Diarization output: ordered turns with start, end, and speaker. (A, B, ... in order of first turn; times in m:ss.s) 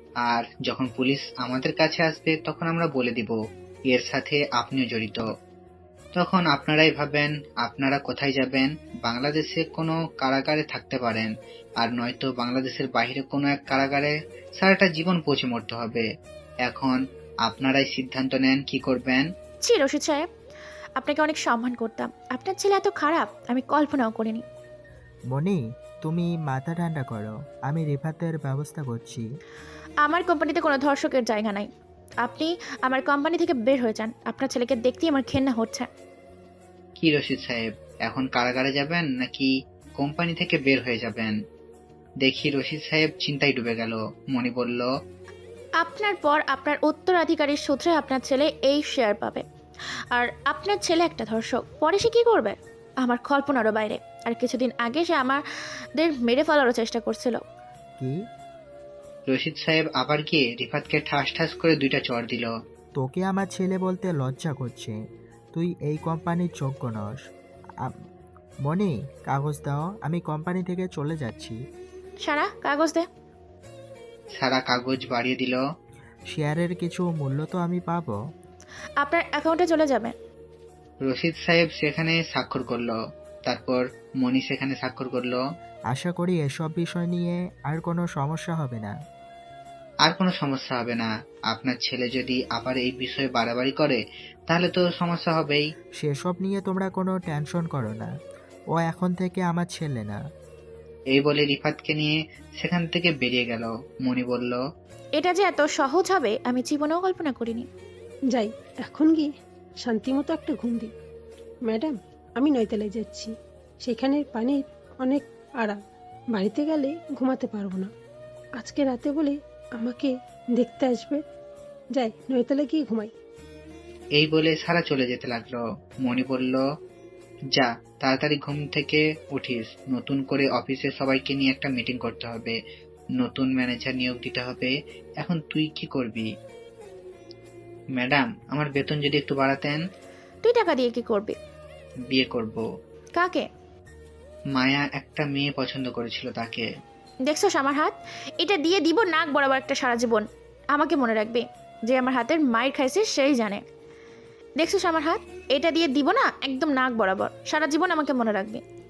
0:00.2-0:03.4 A
0:03.9-0:05.2 A
0:06.1-0:16.0 A
0:16.6-0:19.3 A
0:19.6-0:20.3 B
0:21.0-0:24.4 B
0:25.3-0:29.2 C
0:30.0-0:31.7 B
0:32.2-0:35.9 B
0:37.0-0:41.3 A
0:42.2-0:44.9 A
0:45.8-0:49.4 B
0:50.1-0:55.4 B
0:56.0-0:57.4 B
0:59.3-1:02.5 A
1:03.0-1:05.0 C
1:05.5-1:07.2 C
1:08.6-1:11.6 C
1:12.2-1:13.0 B
1:14.3-1:15.6 A
1:16.3-1:18.2 C
1:19.0-1:20.1 B
1:21.0-1:25.4 A
1:25.9-1:28.9 C
1:30.0-1:35.6 A
1:36.0-1:38.1 C
1:38.7-1:40.2 C
1:41.1-1:44.6 A
1:45.2-1:47.7 B
1:48.3-1:50.9 D
1:51.6-1:55.8 D
1:56.3-1:57.9 D
1:58.6-2:01.2 D
2:01.9-2:03.1 D
2:04.2-2:06.6 A
2:07.5-2:12.6 A
2:13.2-2:16.3 A
2:18.0-2:19.8 A
2:20.4-2:21.4 B
2:22.1-2:22.6 A
2:23.2-2:23.4 B
2:24.5-2:26.6 A
2:27.3-2:33.6 B
2:34.6-2:38.6 B